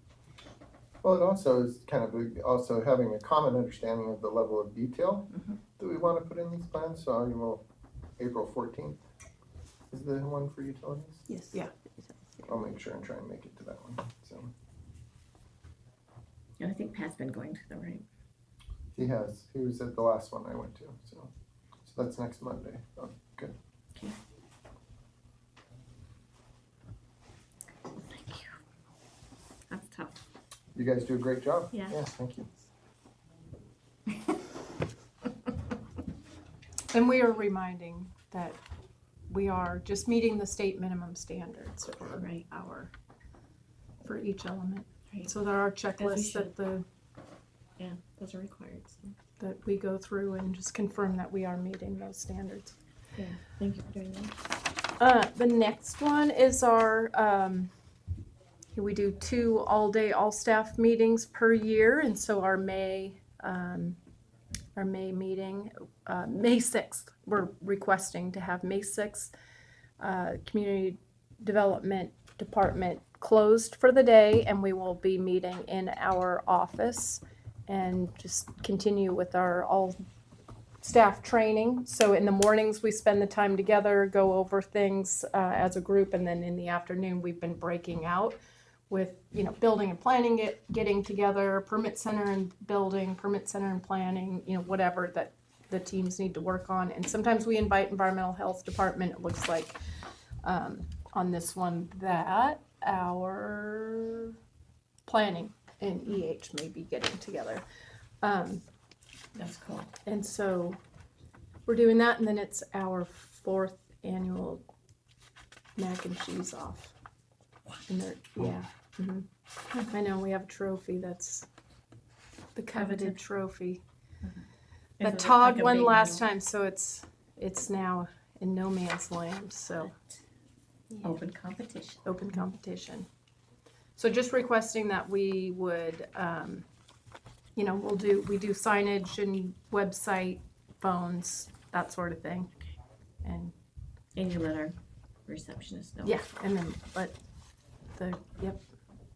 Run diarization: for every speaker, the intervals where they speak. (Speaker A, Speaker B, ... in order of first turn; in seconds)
Speaker A: 1.0-5.3, 5.8-7.6, 8.2-9.0, 9.9-11.2, 12.4-14.5, 18.9-21.3, 21.8-23.5, 30.7-32.5
Speaker B: 5.3-5.6, 11.3-12.5, 16.6-18.1, 27.9-28.5, 29.7-30.1, 31.7-32.0, 42.1-42.4, 46.0-46.5, 47.8-49.1, 53.1-54.3, 109.3-109.9, 122.7-123.2, 125.0-126.2, 131.0-132.3, 144.1-146.2
Speaker C: 36.9-38.6, 39.3-42.9, 44.0-46.8, 49.4-52.8, 55.0-57.7, 58.7-64.0, 64.8-69.3, 70.0-80.0, 80.8-88.4, 88.9-99.8, 100.4-104.3, 105.0-107.6, 108.2-108.6, 110.0-110.8, 111.7-114.6, 115.8-116.9, 117.9-121.5, 122.5-123.8, 125.0-129.9, 130.9-131.2, 132.0-133.1, 133.9-136.6, 137.6-142.5, 143.2-143.5, 146.0-147.2, 147.9-148.6